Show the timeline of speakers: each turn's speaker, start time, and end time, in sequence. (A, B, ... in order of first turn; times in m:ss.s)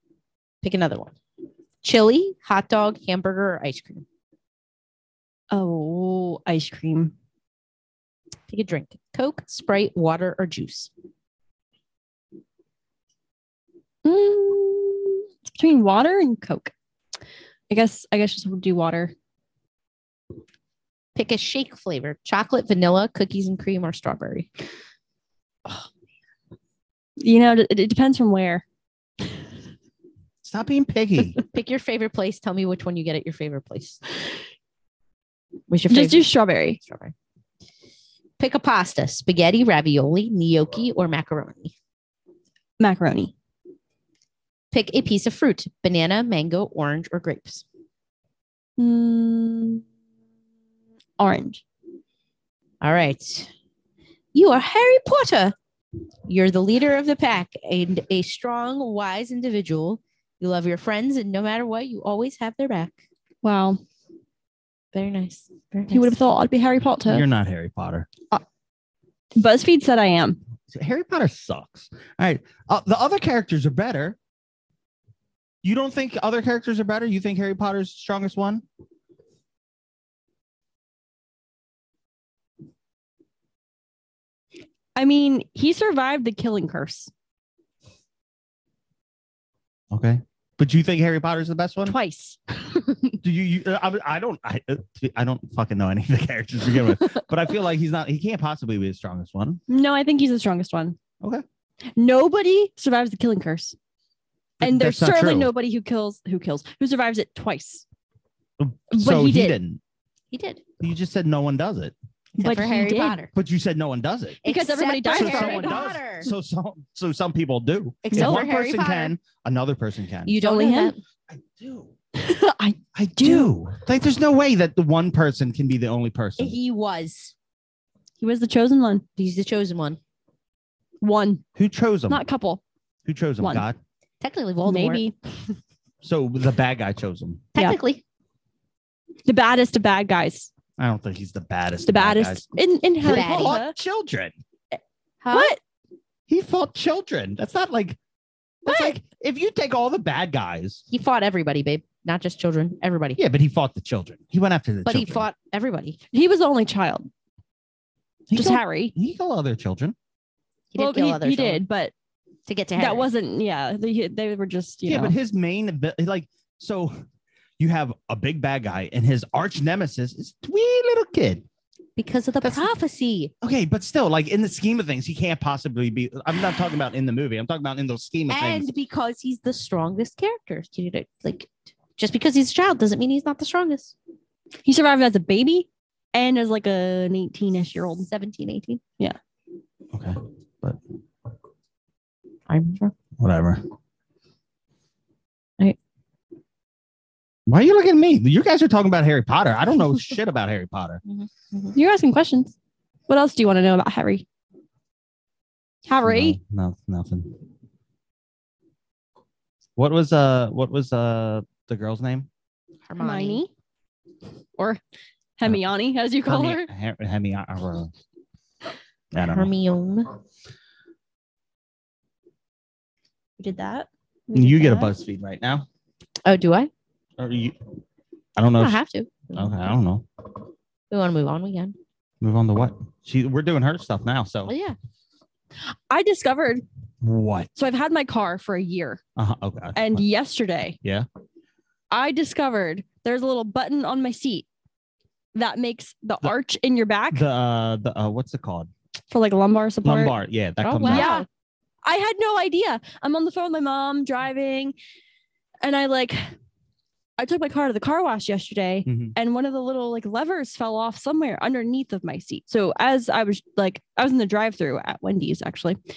0:00.6-0:01.1 A
0:01.8-0:04.0 A
0:05.5-0:07.1 B
0:08.5-0:10.9 A
0:14.0-0:16.7 B
0:17.7-0:19.1 B
0:21.1-0:24.5 A
0:27.2-0:28.6 B
0:30.4-0:31.4 C
0:31.3-0:34.0 A
0:35.7-0:36.3 A
0:35.9-0:36.8 B
0:36.8-0:37.1 A
0:38.4-0:41.7 A
0:42.8-0:43.3 B
0:44.7-0:47.6 A
0:48.8-0:49.8 B
0:51.2-0:51.6 B
0:52.8-0:53.5 A
0:54.3-0:55.5 A
0:56.3-1:02.9 A
1:03.4-1:03.8 B
1:04.9-1:06.1 A
1:05.9-1:07.2 B
1:07.0-1:08.1 C
1:09.3-1:10.4 B
1:10.7-1:14.2 C
1:15.6-1:18.6 C
1:24.9-1:27.1 B
1:29.9-1:32.0 C
1:31.9-1:33.0 B
1:33.2-1:39.6 C
1:39.7-1:41.0 B
1:42.0-1:43.8 B
1:44.6-1:45.5 C
1:44.6-1:47.8 B
1:48.6-1:49.8 C
1:48.9-1:49.6 B
1:50.3-1:50.6 A
1:50.8-1:51.9 C
1:52.3-1:53.3 A
1:52.4-1:53.2 B
1:53.3-1:54.4 C
1:54.4-1:56.3 A
1:54.4-1:55.9 B
1:55.1-2:00.4 C
1:58.0-1:59.2 A
1:58.1-1:58.4 B
2:00.2-2:01.0 A
2:00.4-2:00.9 B
2:01.3-2:01.9 C
2:02.2-2:03.5 B
2:02.9-2:06.6 C
2:06.4-2:07.3 A
2:08.2-2:09.0 B
2:09.2-2:10.0 A
2:11.0-2:11.4 B
2:11.6-2:12.2 C
2:12.1-2:12.6 B
2:13.0-2:13.8 C
2:13.4-2:13.6 B
2:14.2-2:15.0 A
2:14.6-2:15.1 B
2:16.0-2:17.5 C
2:17.5-2:18.0 A
2:19.2-2:20.5 B
2:20.8-2:22.4 C
2:21.9-2:23.7 B
2:23.0-2:24.4 C
2:23.1-2:23.6 A
2:25.2-2:25.6 A
2:25.3-2:25.6 B
2:26.3-2:28.0 C
2:28.6-2:30.8 C
2:28.7-2:29.0 B
2:30.9-2:33.2 A
2:33.2-2:35.3 C
2:34.8-2:36.0 A
2:36.1-2:37.1 B
2:38.3-2:39.9 C
2:38.3-2:38.9 B
2:40.7-2:41.6 A
2:40.8-2:41.9 B
2:42.5-2:43.1 A
2:42.8-2:45.1 B
2:44.8-2:47.0 C
2:47.6-2:51.4 C
2:52.0-2:53.3 A
2:53.4-2:58.7 C
2:58.3-3:03.9 A
3:04.6-3:08.1 B
3:08.0-3:08.8 A
3:09.9-3:10.8 C
3:12.5-3:12.9 A
3:13.2-3:13.6 C
3:17.5-3:21.0 C
3:21.0-3:21.8 A
3:21.7-3:22.5 B
3:23.1-3:24.2 B
3:25.8-3:26.4 B
3:26.0-3:27.4 C
3:29.8-3:32.3 C
3:32.9-3:33.4 A
3:33.0-3:33.5 B
3:35.4-3:36.7 B
3:36.2-3:37.9 C
3:39.1-3:39.5 C
3:39.2-3:40.1 A
3:43.4-3:44.9 B
3:44.3-3:45.6 C
3:46.2-3:46.7 A
3:47.2-3:47.6 C
3:48.4-3:48.8 C
3:48.6-3:49.6 A
3:49.3-3:50.0 C
3:50.9-3:51.8 A
3:52.2-3:54.5 C
3:54.4-3:54.8 A
3:55.7-3:56.6 B
3:57.0-3:57.5 C
3:57.6-3:59.0 B
3:59.2-4:00.0 C
3:59.8-4:00.8 B
4:01.9-4:04.4 B
4:05.3-4:07.2 B
4:07.1-4:08.7 C
4:09.1-4:10.2 B
4:09.8-4:11.1 C
4:10.6-4:11.3 A
4:10.8-4:11.3 B
4:11.8-4:14.7 B
4:15.6-4:16.3 B
4:17.2-4:25.8 B
4:18.8-4:19.1 C